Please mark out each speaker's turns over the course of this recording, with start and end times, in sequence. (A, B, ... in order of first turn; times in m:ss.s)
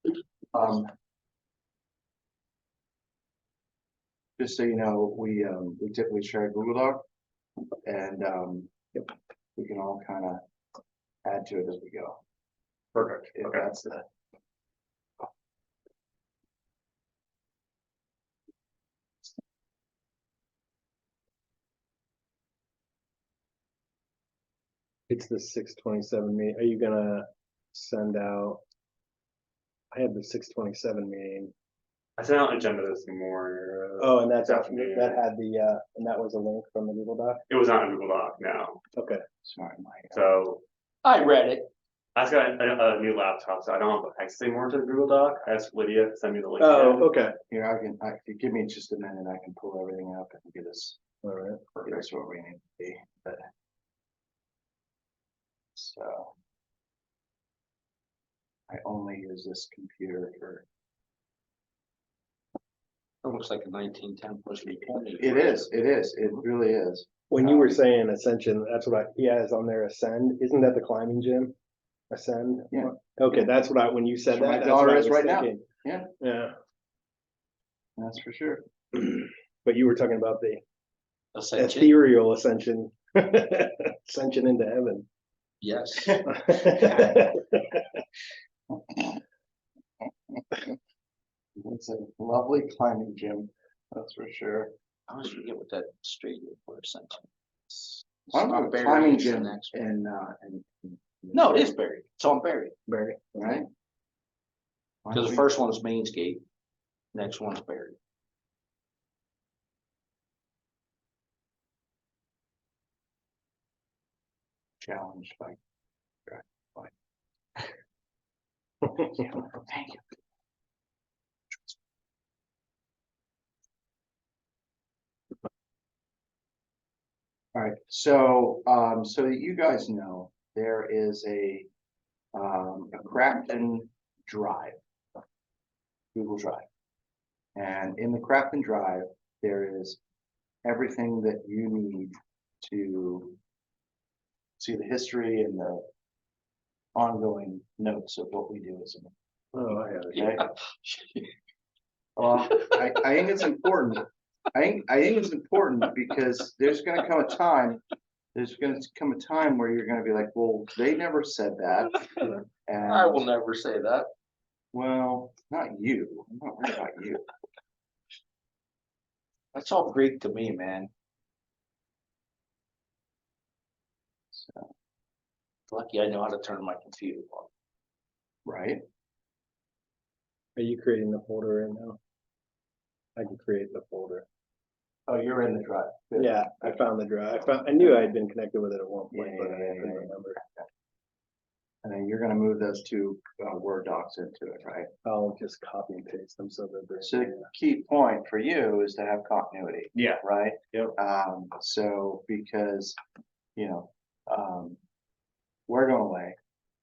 0:00.5-0:00.9 A
0:04.4-0:07.0 A
0:07.8-0:08.7 A
0:09.6-0:10.4 A
0:11.2-0:12.2 A
0:12.9-0:13.7 B
0:13.3-0:14.1 A
0:25.1-0:28.6 C
0:29.9-0:31.5 C
0:32.2-0:35.2 B
0:34.0-0:37.4 C
0:37.5-0:38.8 B
0:39.0-0:39.2 C
0:39.4-0:40.2 A
0:40.1-0:40.6 B
0:41.0-0:41.7 D
0:42.2-0:47.1 B
0:46.6-0:47.3 C
0:47.5-0:51.0 A
0:51.2-0:51.6 C
0:51.8-0:53.5 A
0:55.8-0:56.3 A
0:58.7-1:00.7 A
1:03.2-1:05.7 D
1:05.2-1:07.8 A
1:07.3-1:11.6 C
1:12.1-1:15.6 C
1:14.3-1:16.1 A
1:16.2-1:16.5 C
1:18.0-1:19.0 A
1:19.6-1:20.6 C
1:21.4-1:21.9 D
1:21.6-1:25.1 C
1:25.6-1:26.2 D
1:26.2-1:27.8 C
1:28.7-1:29.2 A
1:30.3-1:30.7 A
1:31.6-1:34.7 A
1:35.1-1:37.2 D
1:38.3-1:39.8 D
1:38.3-1:41.8 A
1:41.3-1:43.1 D
1:43.3-1:43.7 A
1:45.0-1:45.5 A
1:45.1-1:46.4 D
1:47.1-1:48.0 D
1:54.8-1:55.6 A
1:56.3-1:56.9 A
1:59.0-2:00.0 A
2:07.6-2:11.7 A
2:12.3-2:14.8 A
2:16.2-2:16.7 A
2:17.6-2:20.0 A
2:20.6-2:23.4 A
2:24.6-2:25.9 A
2:27.0-2:29.1 A
2:29.5-2:30.2 C
2:30.1-2:30.5 A
2:30.1-2:31.3 D
2:32.2-2:37.8 A
2:38.4-2:43.3 A
2:42.8-2:44.1 D
2:44.7-2:47.3 A
2:49.5-2:50.9 D
2:54.3-2:54.7 A
2:55.7-2:57.5 D
2:58.5-2:58.8 A
3:00.6-3:02.0 C
3:03.2-3:04.3 C
3:05.1-3:06.9 A
3:06.2-3:10.4 C
3:07.8-3:08.1 A
3:09.1-3:10.6 A
3:11.8-3:14.9 A
3:15.0-3:17.5 C
3:17.0-3:23.0 A
3:23.6-3:24.8 A
3:25.7-3:26.4 A